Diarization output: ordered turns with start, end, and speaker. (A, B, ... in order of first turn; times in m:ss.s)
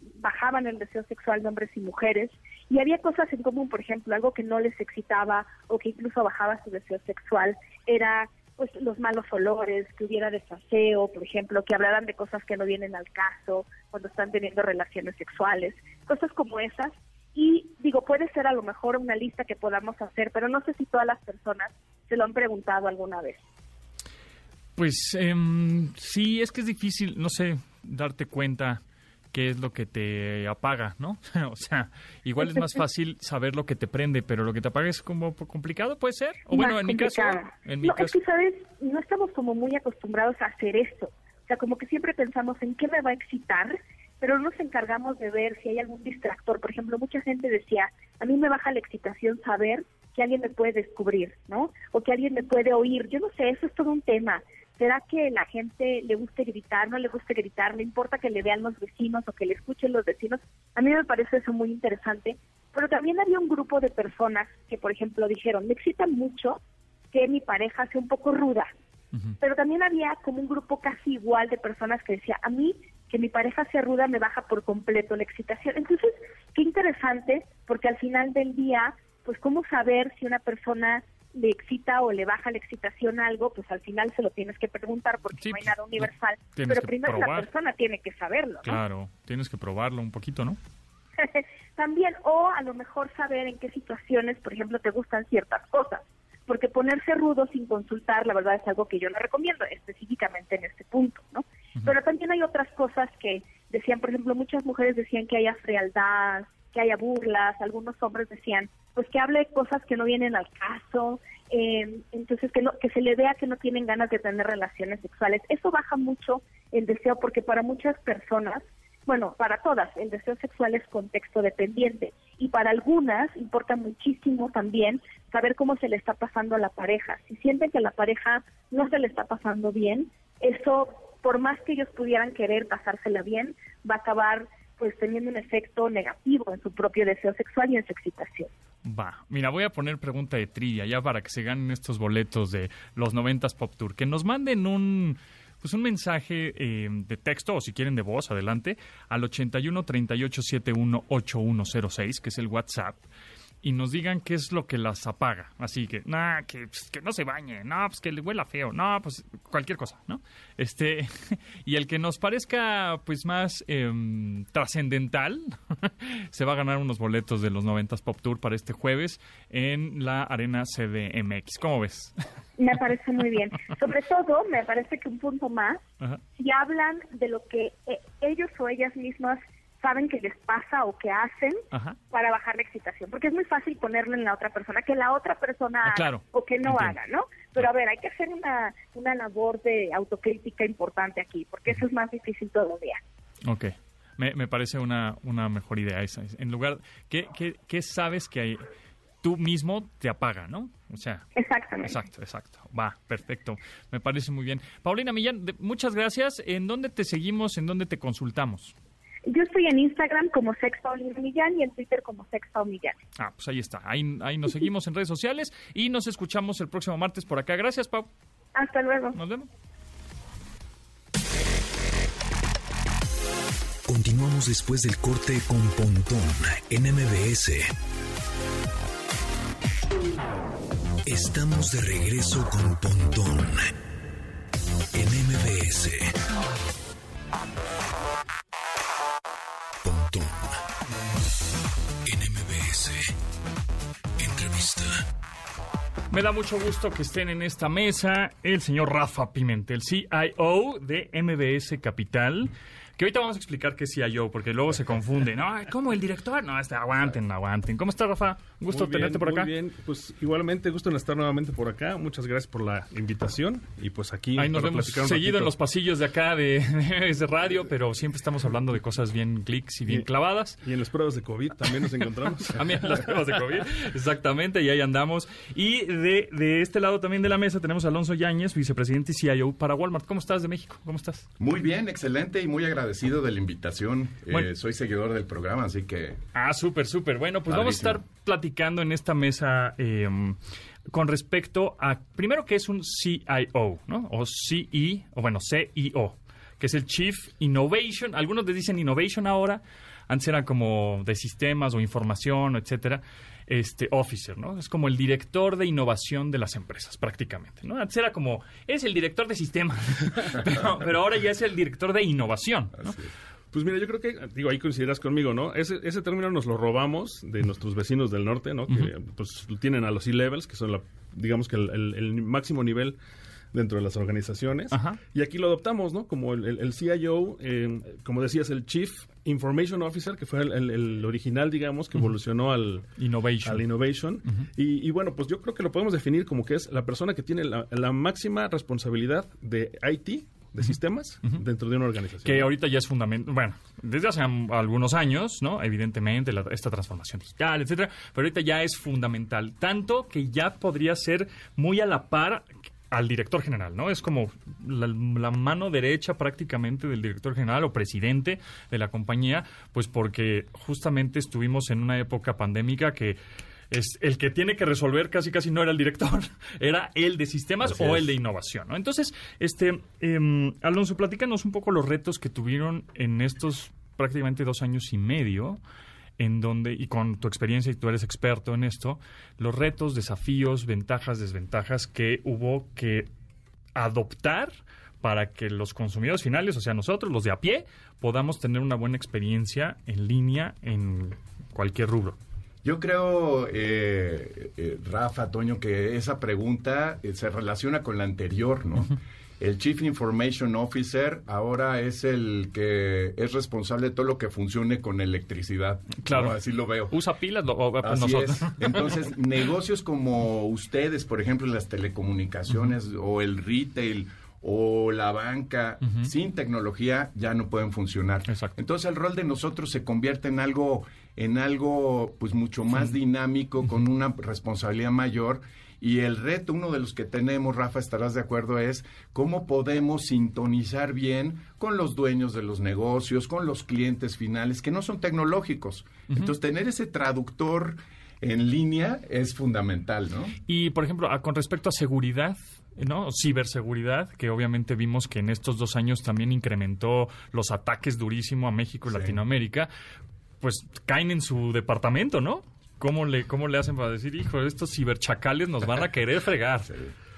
0:00.2-0:23.4 A
0:24.8-0:28.8 B
0:29.3-0:38.2 B
0:36.5-1:06.6 A
1:07.1-1:08.7 A
1:09.4-1:28.8 A
1:25.3-1:27.5 B
1:28.6-1:30.6 B
1:31.2-2:18.5 A
2:18.8-2:33.0 B
2:33.6-2:52.2 B
2:52.6-2:55.8 A
2:56.4-3:13.0 A
3:01.7-3:02.0 B
3:05.8-3:07.0 B
3:13.4-3:18.6 B
3:19.2-3:21.3 B
3:21.4-3:22.0 A
3:21.8-3:28.8 B
3:29.2-3:33.0 A
3:33.2-3:38.1 B
3:38.6-3:39.2 A
3:39.2-3:39.5 B
3:43.9-3:47.7 C
3:51.0-3:53.7 C
3:54.9-3:56.1 C
3:59.8-4:00.6 C
4:02.1-4:03.1 C
4:04.2-4:05.0 C
4:06.1-4:19.5 B
4:18.7-4:25.5 D
4:24.3-4:30.6 B
4:30.6-4:33.2 D
4:32.4-4:41.3 B
4:41.4-4:46.2 E
4:46.3-4:50.4 B
4:47.5-4:48.0 E
4:50.9-5:13.0 B
5:12.8-5:13.1 E
5:13.5-5:23.0 D
5:23.5-5:32.9 D
5:24.7-5:25.0 B
5:33.0-5:33.7 B
5:33.4-5:42.5 D
5:42.2-6:03.2 B
6:03.7-6:15.6 B
6:07.6-6:08.1 E
6:16.2-6:23.1 B
6:23.7-6:32.2 B
6:32.6-6:47.0 E
6:46.0-6:46.4 B
6:46.9-6:48.9 B
6:47.8-7:20.3 E
6:58.3-6:58.6 B
7:20.5-7:29.7 B
7:28.9-7:29.2 E
7:30.4-7:36.7 B